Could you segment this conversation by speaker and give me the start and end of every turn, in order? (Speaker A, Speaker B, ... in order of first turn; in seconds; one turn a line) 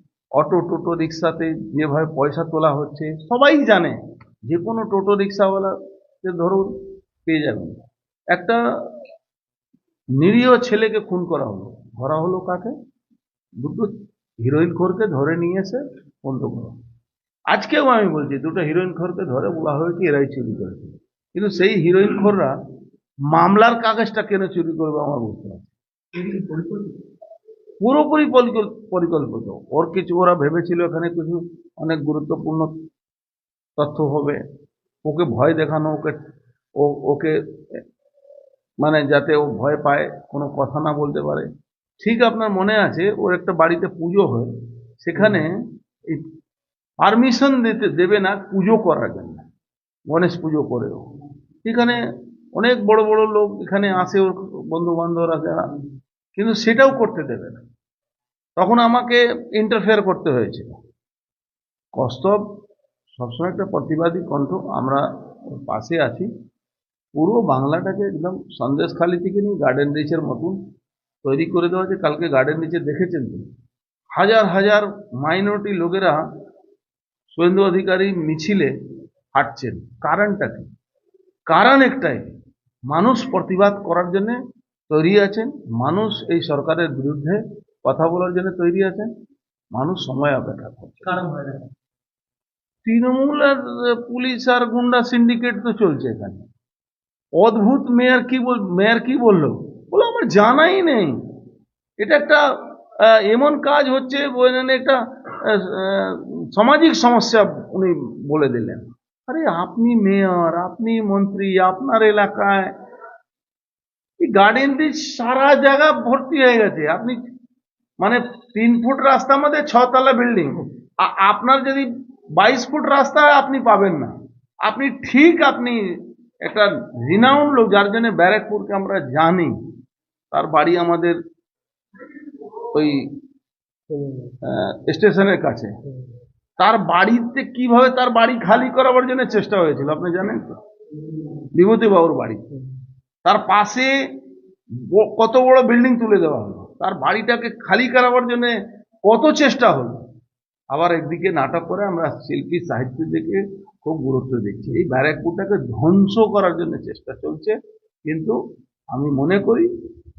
Speaker A: 0.3-6.7
Speaker A: 7.3-9.0
Speaker A: 10.2-12.7
Speaker A: 13.6-13.9
Speaker A: 14.4-16.8
Speaker A: 17.5-22.6
Speaker A: 23.3-26.4
Speaker A: 27.8-32.7
Speaker A: 33.8-34.4
Speaker A: 35.0-36.1
Speaker A: 36.8-37.8
Speaker A: 38.8-41.5
Speaker A: 42.0-44.5
Speaker A: 45.0-45.5
Speaker A: 47.0-49.5
Speaker A: 50.1-51.0
Speaker A: 51.6-55.7
Speaker A: 56.4-57.6
Speaker A: 58.6-60.8
Speaker A: 62.0-62.4
Speaker A: 63.2-66.3
Speaker A: 67.2-70.6
Speaker A: 71.2-73.4
Speaker A: 74.1-76.2
Speaker A: 77.3-78.7
Speaker A: 79.3-80.7
Speaker A: 81.5-82.3
Speaker A: 82.9-84.4
Speaker A: 84.9-89.1
Speaker A: 89.7-91.4
Speaker A: 92.8-96.4
Speaker A: 97.4-101.2
Speaker A: 102.0-112.7
Speaker A: 114.2-117.2
Speaker A: 118.0-129.6
Speaker A: 130.3-131.2
Speaker A: 132.7-133.1
Speaker A: 134.4-135.7
Speaker A: 136.6-140.6
Speaker A: 141.5-142.4
Speaker A: 143.2-143.9
Speaker A: 144.8-148.5
Speaker A: 149.1-150.0
Speaker A: 150.7-158.4
Speaker A: 158.9-159.7